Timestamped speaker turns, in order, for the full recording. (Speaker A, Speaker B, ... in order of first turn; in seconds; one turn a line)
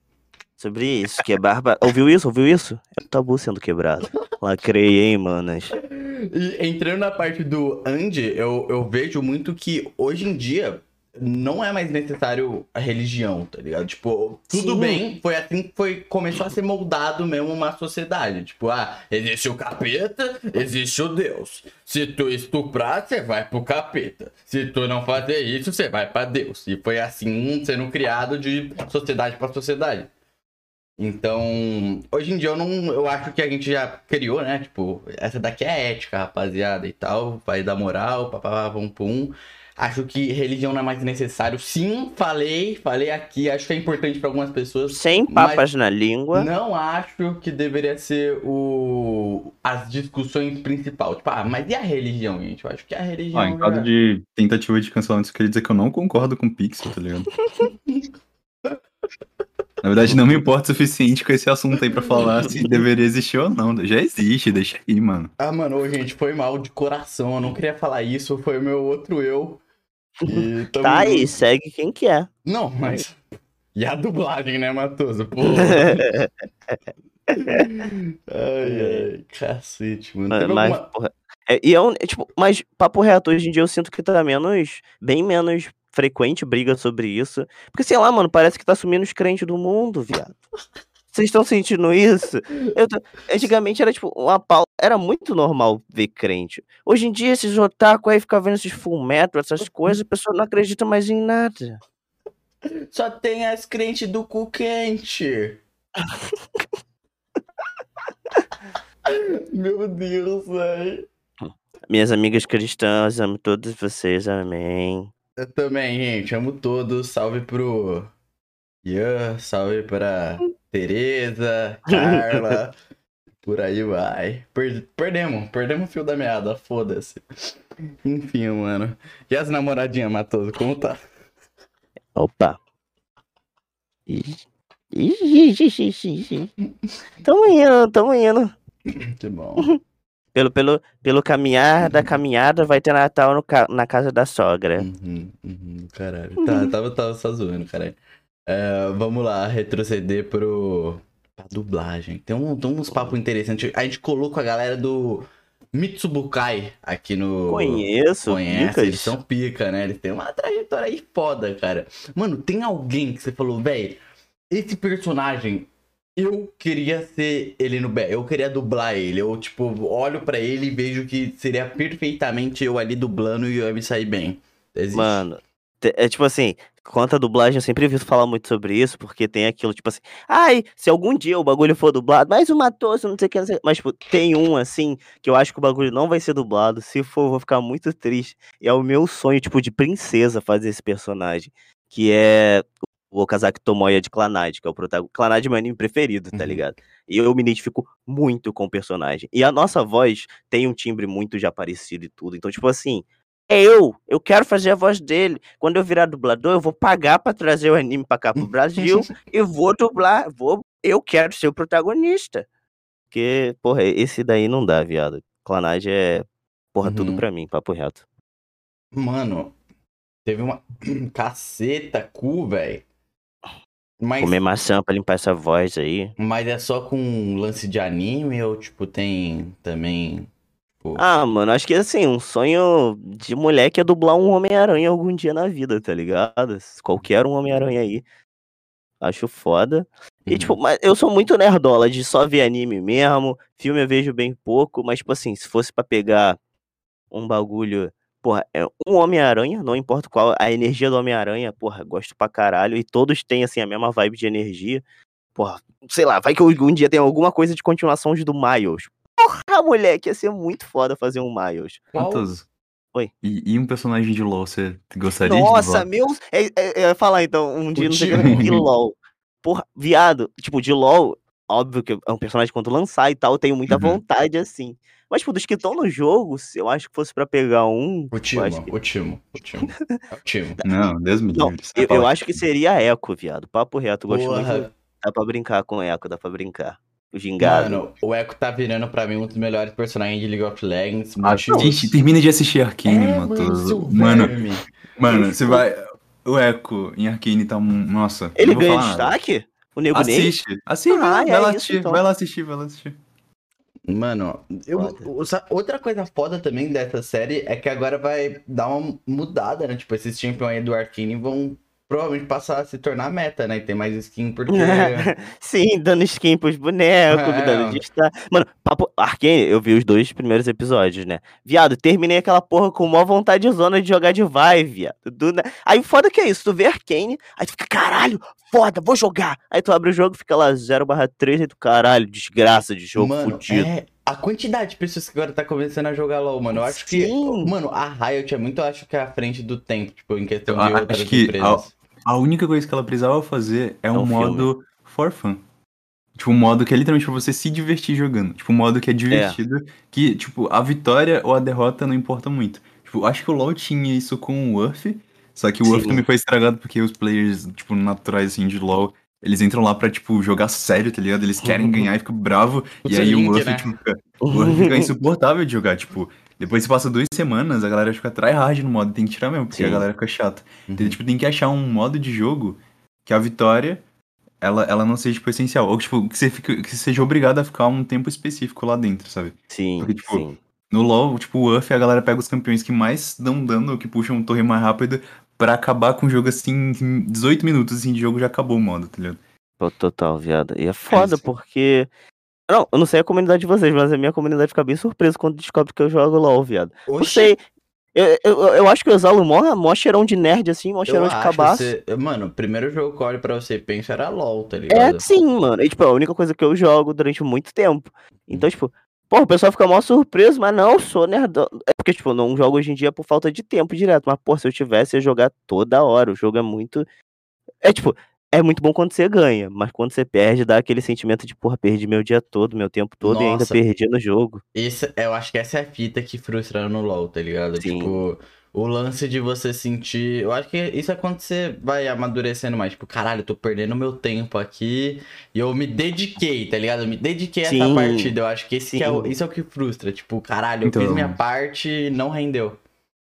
Speaker A: 0.6-5.7
Speaker B: 5.8-30.1
Speaker A: 14.5-15.0
Speaker B: 31.0-45.6
Speaker A: 44.9-46.5
Speaker B: 46.3-53.9
Speaker C: 53.3-57.3
Speaker C: 59.8-65.3
Speaker B: 65.4-69.6
Speaker B: 70.2-71.3
Speaker A: 70.2-72.3
Speaker B: 72.5-73.2
Speaker B: 73.7-76.0
Speaker A: 75.4-76.8
Speaker A: 77.3-77.7
Speaker B: 77.4-80.8
Speaker A: 78.6-79.1
Speaker A: 80.3-90.3
Speaker A: 91.1-101.8
Speaker B: 102.9-105.6
Speaker A: 106.1-106.6
Speaker B: 109.1-111.1
Speaker A: 111.4-115.1
Speaker B: 115.4-118.1
Speaker B: 118.8-122.7
Speaker A: 121.9-122.6
Speaker B: 123.4-131.0
Speaker A: 132.2-132.6
Speaker A: 134.1-134.4
Speaker A: 134.9-136.5
Speaker A: 137.2-138.5
Speaker B: 139.1-139.7
Speaker A: 140.3-144.8
Speaker B: 144.8-148.0
Speaker A: 146.4-146.7
Speaker B: 148.5-164.0
Speaker A: 157.5-159.2
Speaker B: 164.5-175.2
Speaker A: 174.9-212.4
Speaker B: 196.3-196.6
Speaker A: 213.1-218.0
Speaker B: 216.8-217.2
Speaker B: 218.9-219.5
Speaker B: 220.2-222.8
Speaker B: 224.0-224.4
Speaker A: 224.2-226.1
Speaker B: 226.2-230.3
Speaker A: 231.0-238.0
Speaker A: 239.0-246.4
Speaker B: 240.3-240.6
Speaker A: 247.1-254.8
Speaker A: 255.3-261.9
Speaker B: 261.9-262.3
Speaker C: 261.9-262.4
Speaker C: 263.2-265.9
Speaker A: 265.2-278.7
Speaker B: 267.8-268.6
Speaker C: 268.1-268.6
Speaker C: 273.7-274.0
Speaker B: 278.1-280.6
Speaker A: 279.7-280.0
Speaker C: 280.6-282.1
Speaker A: 281.4-287.8
Speaker B: 284.1-284.7
Speaker B: 287.4-291.9
Speaker C: 291.2-294.3
Speaker B: 292.9-294.6
Speaker C: 295.0-299.2
Speaker B: 295.2-295.6
Speaker A: 298.4-300.3
Speaker C: 299.9-303.0
Speaker A: 300.9-302.0
Speaker B: 303.9-315.1
Speaker A: 304.7-305.0
Speaker A: 314.5-333.7
Speaker B: 317.1-317.8
Speaker B: 332.9-341.7
Speaker A: 336.6-337.5
Speaker C: 340.5-345.4
Speaker A: 343.9-344.5
Speaker C: 346.2-373.8
Speaker A: 349.1-349.4
Speaker A: 355.6-356.0
Speaker A: 361.4-361.9
Speaker B: 362.8-363.7
Speaker A: 364.2-364.9
Speaker A: 369.5-369.8
Speaker B: 370.7-371.0
Speaker C: 374.4-389.2
Speaker A: 379.5-380.4
Speaker A: 389.6-391.9
Speaker C: 390.9-391.2
Speaker A: 392.5-397.4
Speaker B: 396.9-397.3
Speaker A: 397.9-401.7
Speaker B: 400.9-405.0
Speaker A: 404.7-416.9
Speaker A: 417.6-424.4
Speaker B: 423.0-423.6
Speaker B: 424.5-442.6
Speaker A: 427.6-428.0
Speaker A: 437.4-438.1
Speaker A: 438.7-439.1
Speaker C: 440.6-441.2